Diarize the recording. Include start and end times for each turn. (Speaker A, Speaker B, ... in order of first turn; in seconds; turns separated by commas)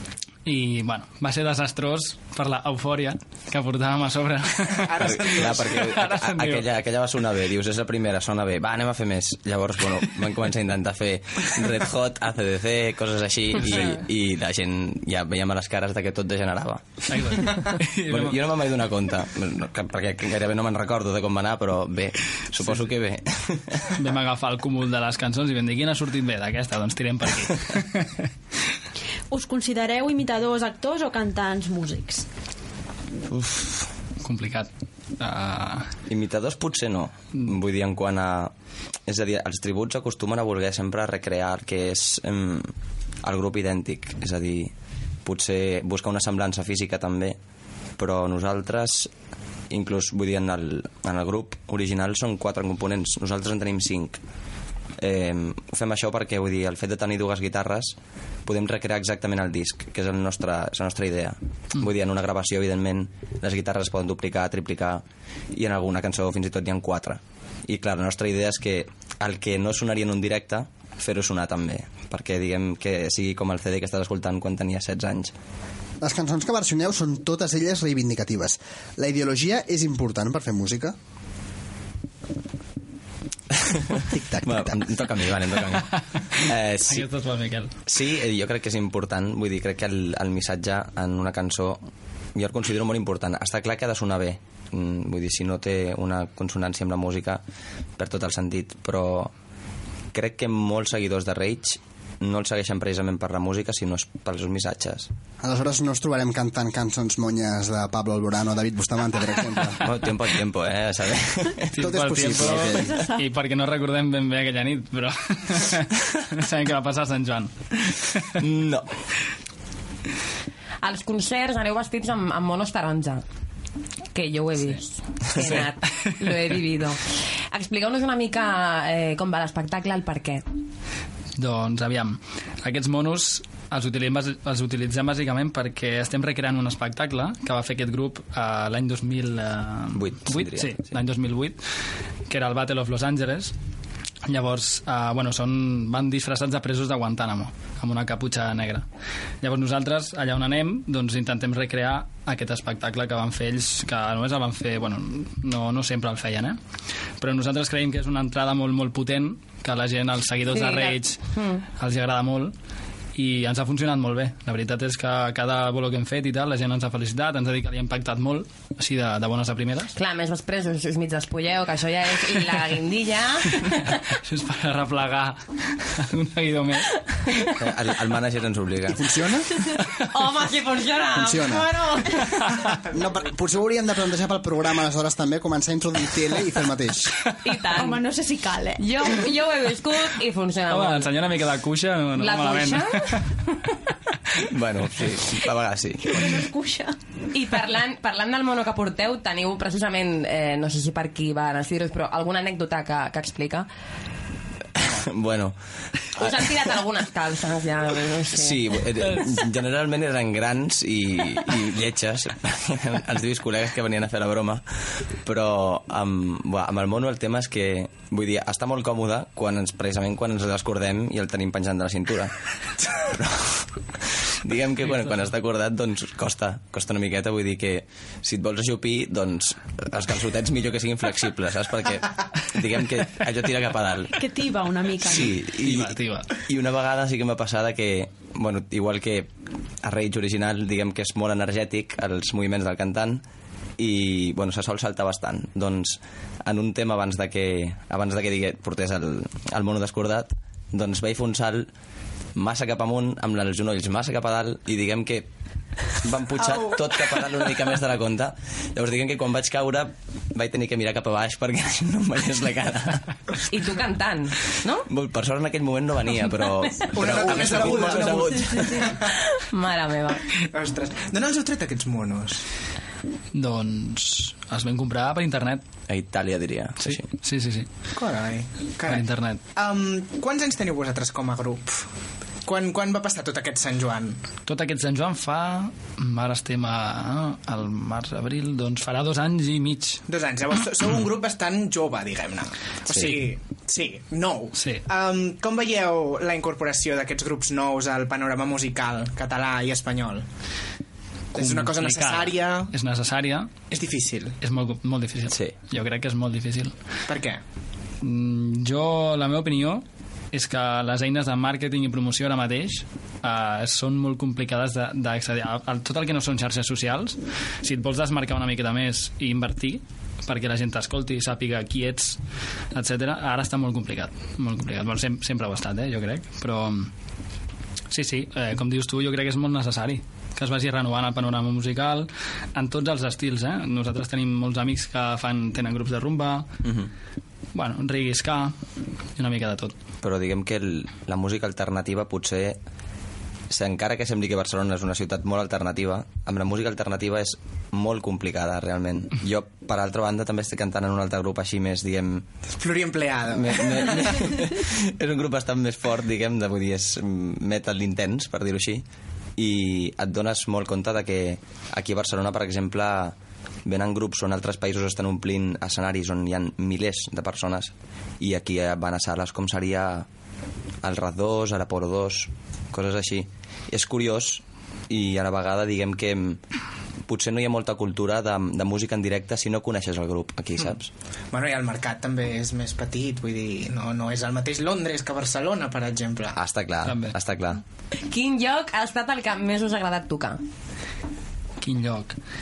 Speaker A: 0.4-6.7, Speaker B: 4.8-5.8, Speaker C: 5.0-23.9, Speaker A: 13.7-13.9, Speaker A: 17.1-18.4, Speaker A: 23.9-28.2, Speaker D: 29.3-32.2, Speaker C: 33.3-33.8, Speaker A: 34.2-35.9, Speaker C: 36.1-38.5, Speaker C: 39.1-42.7, Speaker C: 43.2-44.7, Speaker C: 45.2-47.4, Speaker C: 48.0-49.1, Speaker C: 49.7-54.2, Speaker C: 55.0-75.3, Speaker E: 76.0-80.9, Speaker E: 84.0-84.8, Speaker C: 84.4-87.1, Speaker A: 86.9-87.7, Speaker C: 87.9-91.8, Speaker C: 92.3-97.4, Speaker C: 98.0-99.3, Speaker C: 100.1-105.1, Speaker E: 105.4-109.8, Speaker C: 109.8-113.1, Speaker A: 111.7-118.3, Speaker E: 111.8-112.8, Speaker D: 112.8-113.2, Speaker C: 118.4-118.9, Speaker F: 120.8-123.2, Speaker F: 124.1-130.4, Speaker A: 131.4-141.6, Speaker C: 139.9-140.9, Speaker A: 142.3-143.5, Speaker A: 144.3-148.8, Speaker A: 149.4-156.6, Speaker A: 157.2-162.5, Speaker F: 160.5-161.6, Speaker A: 163.1-169.9, Speaker F: 169.9-173.9, Speaker A: 173.9-177.5, Speaker F: 177.1-177.5, Speaker C: 177.6-179.1, Speaker E: 178.9-179.5, Speaker F: 180.0-182.4, Speaker E: 181.1-181.8, Speaker E: 182.9-187.2, Speaker F: 187.4-188.0, Speaker D: 187.7-189.1, Speaker F: 188.8-191.1, Speaker A: 190.7-193.2, Speaker F: 192.2-193.5, Speaker C: 194.5-196.3, Speaker D: 196.1-196.9, Speaker F: 197.3-203.7, Speaker C: 204.8-205.5, Speaker F: 206.2-208.6, Speaker C: 206.2-206.5, Speaker C: 208.3-214.6, Speaker C: 215.2-222.3, Speaker C: 223.0-223.6, Speaker C: 224.4-234.2, Speaker D: 234.1-235.3, Speaker C: 235.0-239.3, Speaker A: 235.6-236.3, Speaker C: 239.8-243.2, Speaker C: 243.8-251.7, Speaker C: 252.3-255.2, Speaker C: 256.0-263.0, Speaker F: 263.5-264.9, Speaker C: 264.9-269.0, Speaker B: 266.9-269.1, Speaker F: 269.3-270.2, Speaker B: 270.5-272.4, Speaker A: 273.3-275.6, Speaker C: 275.9-277.1, Speaker A: 276.8-277.7, Speaker B: 277.9-281.9, Speaker A: 278.9-279.4, Speaker B: 282.4-284.2, Speaker A: 284.4-290.0, Speaker B: 290.1-300.2, Speaker C: 292.9-293.2, Speaker A: 292.9-293.3, Speaker A: 294.5-294.8, Speaker B: 301.3-302.7, Speaker A: 301.3-303.5, Speaker B: 303.7-304.4, Speaker A: 304.4-306.7, Speaker C: 305.3-305.5, Speaker B: 307.1-307.4, Speaker A: 308.0-322.2, Speaker A: 322.7-326.9, Speaker A: 327.9-336.5, Speaker C: 336.6-336.9, Speaker A: 337.5-338.6, Speaker A: 339.2-339.8, Speaker C: 340.0-342.6, Speaker C: 343.5-352.2, Speaker B: 352.6-354.1, Speaker C: 353.3-358.8, Speaker C: 359.4-370.1, Speaker C: 370.8-376.4, Speaker C: 377.1-380.9, Speaker B: 381.3-386.4, Speaker C: 386.3-387.6, Speaker A: 386.8-387.1, Speaker F: 388.1-390.4, Speaker A: 391.6-392.1